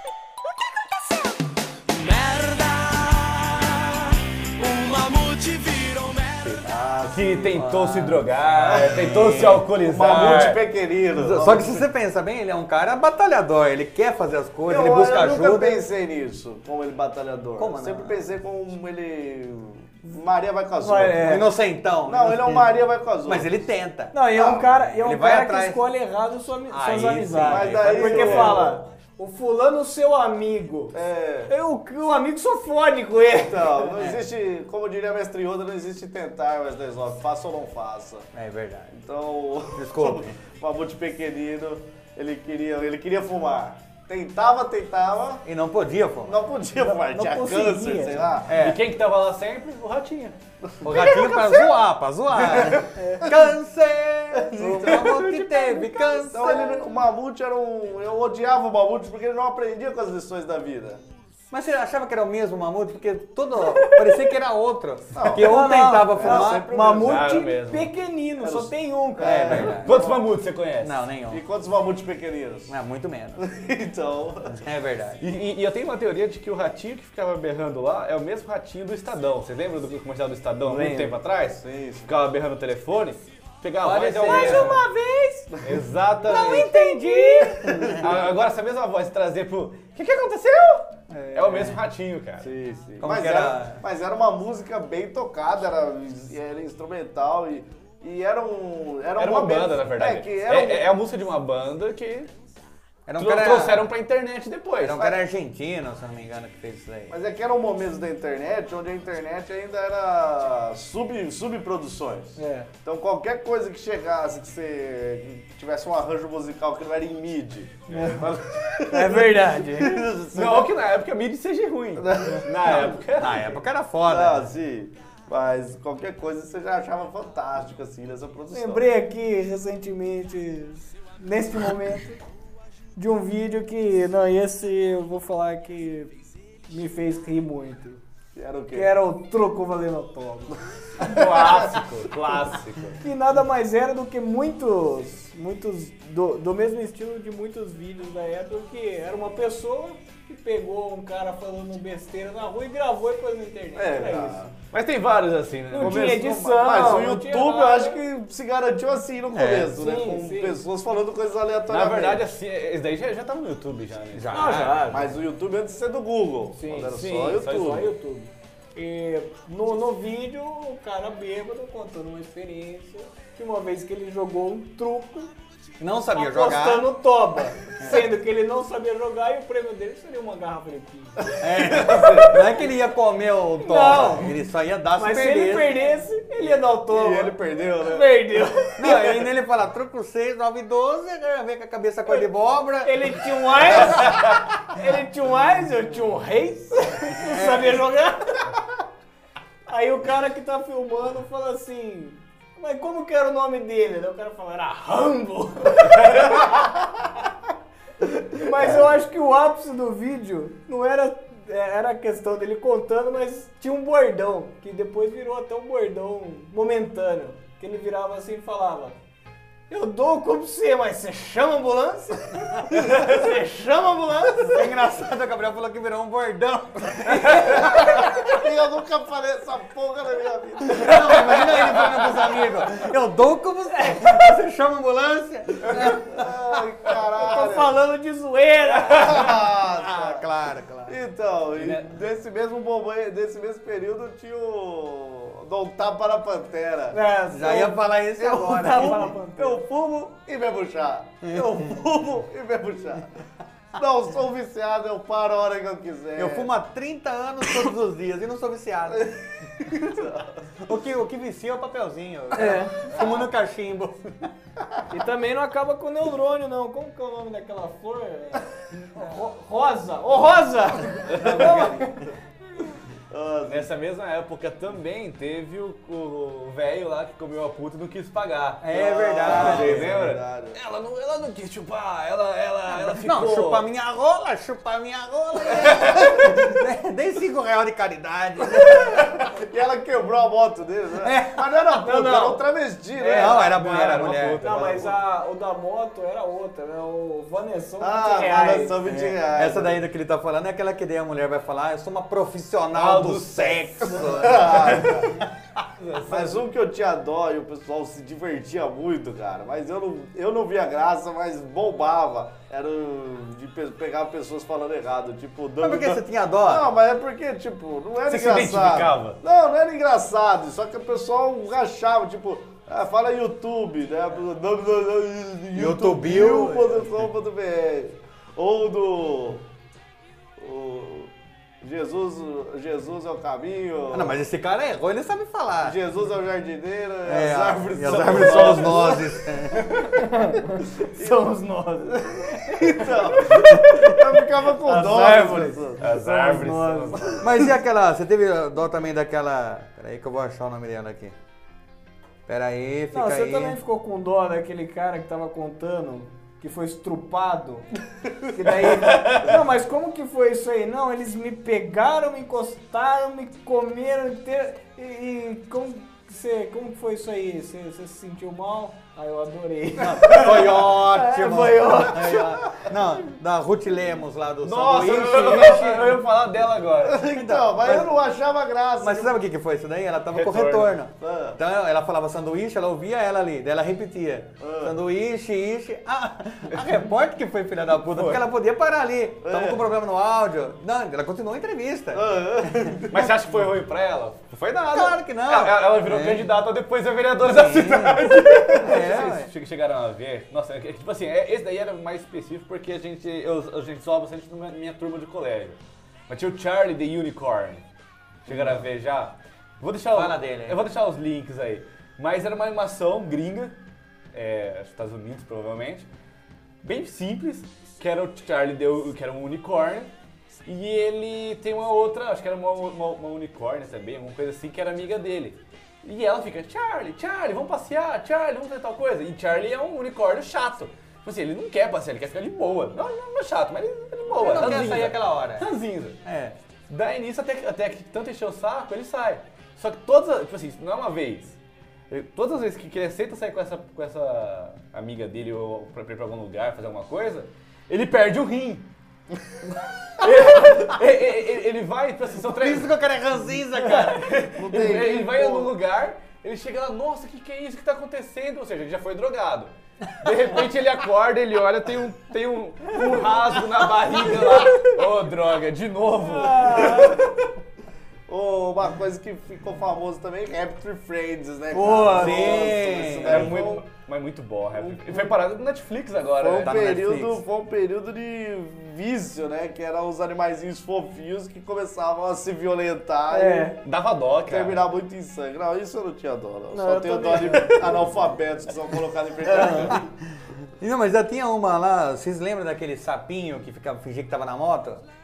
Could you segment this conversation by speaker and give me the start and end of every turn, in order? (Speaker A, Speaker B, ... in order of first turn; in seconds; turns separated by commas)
Speaker A: 1.9-6.7, Speaker B: 6.4-10.6, Speaker C: 6.6-7.6, Speaker D: 7.5-10.4, Speaker C: 8.6-9.1, Speaker C: 9.8-11.9, Speaker D: 11.2-15.8, Speaker C: 14.7-21.4, Speaker D: 17.6-18.2, Speaker E: 20.8-21.5, Speaker D: 21.2-22.7, Speaker C: 22.1-23.6, Speaker D: 23.2-25.8, Speaker E: 24.1-31.0, Speaker C: 24.4-24.6, Speaker D: 26.7-28.7, Speaker C: 27.5-28.8, Speaker C: 30.9-31.5, Speaker E: 31.5-33.9, Speaker C: 33.4-38.3, Speaker D: 38.3-38.9, Speaker C: 38.9-45.5, Speaker D: 39.8-40.4, Speaker D: 45.5-46.5, Speaker C: 46.3-48.6, Speaker E: 46.8-48.4, Speaker D: 48.5-48.8, Speaker B: 48.5-50.4, Speaker C: 50.6-51.4, Speaker D: 50.8-56.8, Speaker E: 52.9-53.4, Speaker C: 54.4-55.5, Speaker C: 56.3-61.0, Speaker D: 61.5-66.7, Speaker C: 65.1-67.2, Speaker E: 65.4-69.7, Speaker B: 66.9-67.9, Speaker C: 68.4-70.2, Speaker D: 69.2-70.0, Speaker B: 69.8-71.0, Speaker D: 70.8-71.4, Speaker C: 71.3-72.7, Speaker D: 72.7-73.4, Speaker C: 73.4-74.6, Speaker D: 74.5-75.2, Speaker B: 75.2-84.8, Speaker E: 80.7-81.2, Speaker C: 81.6-82.2, Speaker D: 83.8-84.9, Speaker E: 83.8-85.5, Speaker C: 85.5-85.8, Speaker B: 85.6-87.2, Speaker D: 86.2-88.2, Speaker C: 87.6-88.2, Speaker B: 88.0-92.5, Speaker D: 91.1-91.8, Speaker C: 92.4-100.9, Speaker D: 93.0-93.8, Speaker B: 99.2-102.3, Speaker D: 103.1-103.9, Speaker B: 103.2-105.1, Speaker D: 104.8-107.1, Speaker C: 107.1-120.8, Speaker E: 112.4-112.7, Speaker E: 117.9-118.2, Speaker B: 118.0-118.5, Speaker E: 118.9-120.1, Speaker B: 120.3-123.6, Speaker C: 122.0-123.0, Speaker D: 123.2-124.5, Speaker C: 124.0-128.8, Speaker E: 128.5-132.2, Speaker E: 133.0-136.1, Speaker E: 136.7-138.0, Speaker C: 138.3-138.9, Speaker E: 138.7-140.6, Speaker B: 141.0-143.0, Speaker E: 143.0-154.5, Speaker C: 153.8-154.6, Speaker B: 154.7-156.1, Speaker E: 155.7-158.0, Speaker C: 155.8-162.3, Speaker D: 159.3-159.8, Speaker E: 159.8-160.6, Speaker B: 161.7-165.0, Speaker D: 164.2-164.8, Speaker E: 164.3-165.1, Speaker C: 164.9-167.9, Speaker E: 166.6-175.3, Speaker B: 166.9-167.9, Speaker D: 175.8-176.9, Speaker E: 176.1-181.3, Speaker D: 177.8-178.1, Speaker D: 181.4-185.9, Speaker C: 181.5-182.5, Speaker E: 183.6-184.3, Speaker E: 185.0-188.8, Speaker C: 186.9-189.2, Speaker D: 188.8-194.2, Speaker E: 192.8-198.5, Speaker D: 197.3-197.8, Speaker E: 199.7-206.7, Speaker E: 208.2-219.0, Speaker E: 219.7-224.7, Speaker D: 224.4-228.2, Speaker E: 227.1-227.9, Speaker C: 227.4-232.0, Speaker D: 230.7-236.3, Speaker E: 233.8-234.3, Speaker C: 235.8-237.7, Speaker E: 237.2-239.2, Speaker C: 238.9-240.2, Speaker D: 239.6-241.0, Speaker C: 240.8-247.0, Speaker E: 246.9-249.6, Speaker D: 247.3-249.1, Speaker C: 248.7-253.1, Speaker D: 251.2-251.7, Speaker C: 253.7-256.5, Speaker D: 256.2-259.1, Speaker C: 259.7-260.4, Speaker D: 260.6-264.3, Speaker E: 262.3-262.9, Speaker E: 264.9-272.0, Speaker B: 271.1-271.6, Speaker D: 271.2-272.0, Speaker C: 273.1-273.7, Speaker B: 273.5-283.6, Speaker D: 278.6-280.1, Speaker C: 278.7-280.6, Speaker D: 282.7-289.2, Speaker B: 285.6-286.2, Speaker C: 289.1-293.6, Speaker D: 291.0-291.5, Speaker E: 291.8-292.4, Speaker D: 293.0-294.9, Speaker B: 293.1-294.9, Speaker E: 294.4-298.8, Speaker C: 297.8-299.9, Speaker D: 298.9-305.0, Speaker B: 302.7-304.0, Speaker C: 303.9-305.1, Speaker B: 305.8-306.4, Speaker C: 306.1-329.4, Speaker D: 315.6-316.7, Speaker B: 318.1-319.2, Speaker D: 325.6-327.0, Speaker C: 330.4-334.2, Speaker D: 333.9-335.8, Speaker C: 335.6-339.2, Speaker D: 337.1-339.8, Speaker B: 337.9-339.0, Speaker E: 339.9-343.4, Speaker C: 341.0-341.3, Speaker C: 342.4-345.9, Speaker E: 344.6-347.2, Speaker B: 345.8-347.2, Speaker D: 347.2-351.1, Speaker D: 352.3-353.6, Speaker E: 352.9-357.7, Speaker E: 358.2-372.3, Speaker D: 369.8-376.0, Speaker B: 374.4-377.0, Speaker C: 376.8-379.2, Speaker D: 377.1-377.9, Speaker D: 378.8-392.8, Speaker B: 380.1-380.8, Speaker C: 381.0-381.4, Speaker C: 384.4-384.8, Speaker B: 387.9-388.2, Speaker C: 389.2-389.7, Speaker C: 391.9-393.2, Speaker B: 392.9-407.6, Speaker D: 394.7-396.3, Speaker D: 397.2-399.3, Speaker B: 408.2-413.6, Speaker D: 408.3-408.6, Speaker D: 409.9-410.6, Speaker B: 414.1-415.9, Speaker B: 416.6-419.9, Speaker B: 420.4-436.0, Speaker D: 434.1-435.5, Speaker D: 436.0-436.4, Speaker B: 436.7-441.4, Speaker B: 441.9-448.7, Speaker B: 450.0-452.8, Speaker D: 452.3-454.1, Speaker B: 453.5-467.0, Speaker C: 454.4-455.5, Speaker E: 466.2-466.9, Speaker C: 466.5-467.0, Speaker C: 468.1-473.6, Speaker E: 471.6-472.1, Speaker D: 471.6-473.4, Speaker B: 473.0-476.7, Speaker C: 474.6-475.1, Speaker C: 476.2-483.6, Speaker D: 476.4-477.2, Speaker E: 483.1-483.6, Speaker B: 483.6-484.6, Speaker C: 484.3-489.9, Speaker E: 486.5-487.8, Speaker D: 489.3-489.8, Speaker D: 490.6-494.8